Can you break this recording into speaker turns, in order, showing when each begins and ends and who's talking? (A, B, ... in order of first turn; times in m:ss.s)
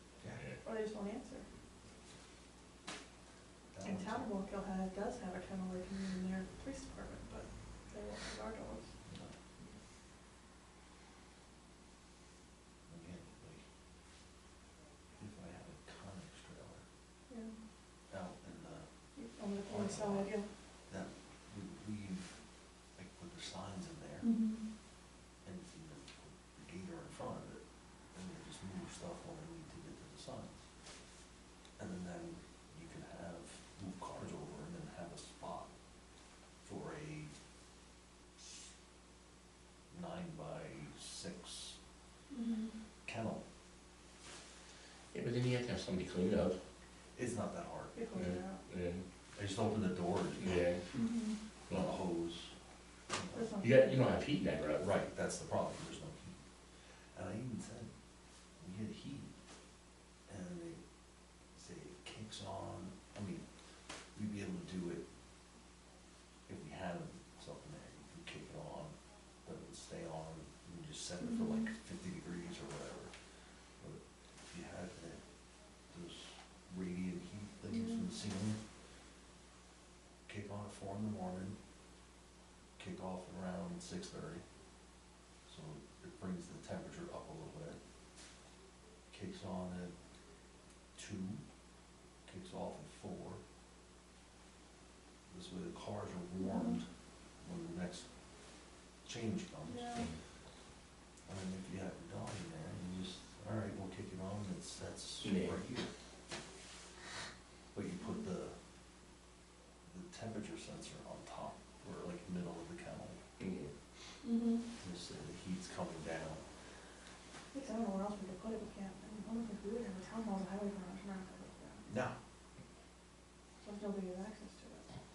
0:00.2-0:00.5 A
0:00.6-0:01.5 B
0:03.7-0:04.3 A
0:03.8-0:08.9 B
0:09.1-0:09.3 A
0:12.9-0:13.6 A
0:15.2-0:16.8 A
0:18.1-0:18.9 A
0:19.2-0:20.5 B
0:19.7-0:20.3 A
0:20.9-0:22.3 A
0:23.0-0:24.3 A
0:24.2-0:24.6 B
0:25.4-0:27.6 A
0:28.1-0:30.6 A
0:31.8-0:35.7 A
0:36.6-0:37.3 A
0:38.4-0:38.7 A
0:39.9-0:41.8 A
0:42.3-0:42.7 B
0:43.1-0:43.4 A
0:45.1-0:46.6 C
0:47.2-0:48.0 A
0:47.9-0:48.6 B
0:48.2-0:49.0 C
0:49.4-0:50.8 A
0:50.4-0:50.8 C
0:50.9-0:51.4 B
0:51.7-0:52.5 A
0:53.1-0:53.5 A
0:53.4-0:54.0 B
0:53.6-0:54.9 C
0:54.8-0:56.4 A
0:57.1-0:57.9 A
0:58.6-0:59.3 A
1:00.3-1:00.8 A
1:01.6-1:03.4 A
1:04.2-1:05.0 A
1:06.5-1:08.9 A
1:09.4-1:13.1 A
1:11.2-1:11.7 B
1:13.8-1:15.2 A
1:15.9-1:18.6 A
1:17.7-1:18.1 B
1:20.3-1:21.6 A
1:22.8-1:24.4 A
1:25.5-1:27.8 A
1:29.1-1:29.9 A
1:31.0-1:31.4 A
1:32.3-1:33.4 A
1:35.3-1:36.9 A
1:36.4-1:36.8 B
1:37.4-1:38.0 A
1:39.0-1:40.1 A
1:39.6-1:40.1 B
1:41.3-1:45.9 A
1:45.2-1:45.6 C
1:47.7-1:48.6 A
1:49.8-1:53.2 A
1:53.4-1:53.7 C
1:54.2-1:54.6 B
1:54.8-1:56.4 A
1:57.5-2:01.9 B
2:01.9-2:02.2 A
2:03.6-2:04.8 B